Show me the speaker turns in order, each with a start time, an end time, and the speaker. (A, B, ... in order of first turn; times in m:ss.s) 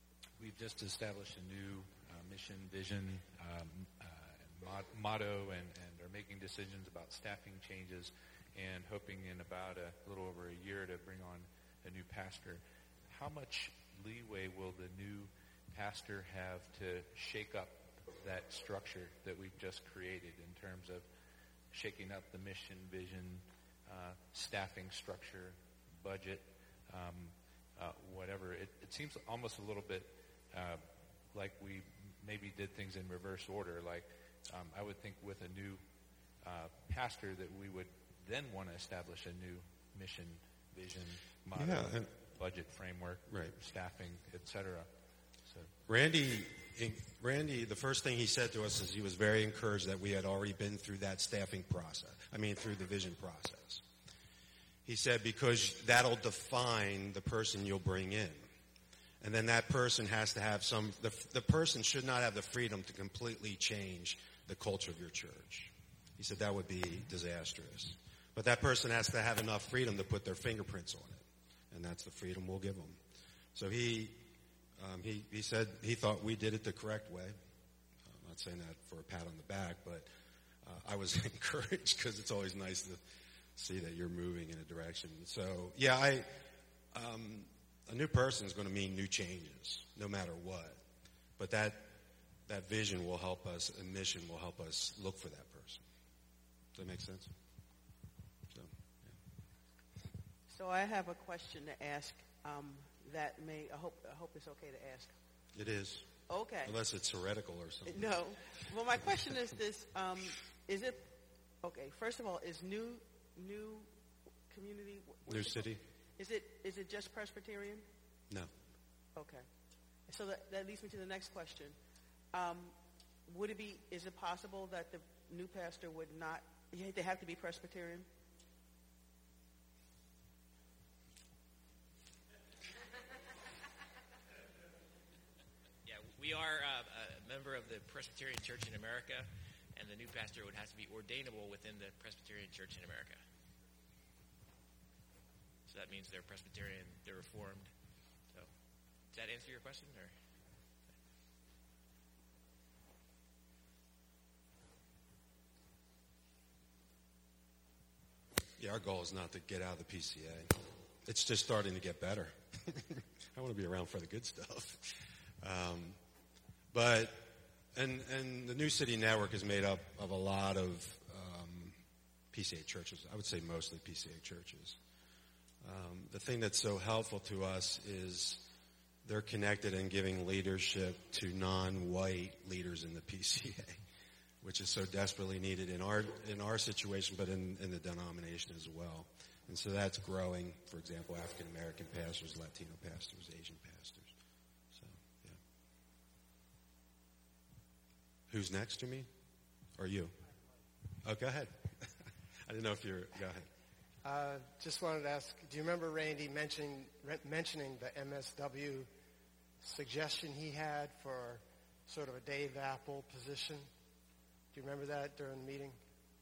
0:00.4-0:21.1 A
0:21.6-0:45.7 A
0:41.6-0:42.1 B
0:43.2-0:43.6 B
0:45.9-0:53.8 B
0:54.8-0:58.5 B
0:59.2-1:13.0 B
1:13.6-1:14.2 B
1:14.8-1:17.4 B
1:18.0-1:20.1 B
1:20.6-1:23.0 B
1:23.6-1:30.8 B
1:31.4-1:35.8 B
1:36.7-1:37.3 B
1:38.5-1:39.2 B
1:40.5-1:45.1 C
1:45.5-1:48.2 B
1:46.3-1:46.8 C
1:47.9-1:57.9 C
1:55.2-1:55.8 B
1:59.1-1:59.5 C
2:00.1-2:01.8 C
2:02.3-2:08.1 C
2:15.9-2:23.2 D
2:25.7-2:27.7 D
2:29.1-2:30.1 D
2:38.6-2:46.0 B
2:46.7-2:51.8 B
2:52.3-2:54.8 B
2:55.6-2:58.4 B
2:59.0-3:03.8 B
3:04.4-3:14.1 B
3:14.7-3:15.4 B
3:18.3-3:19.1 B
3:19.8-3:20.2 B
3:21.0-3:21.9 B
3:22.4-3:23.5 B
3:24.0-3:28.9 E
3:29.6-3:33.7 E
3:34.5-3:35.8 E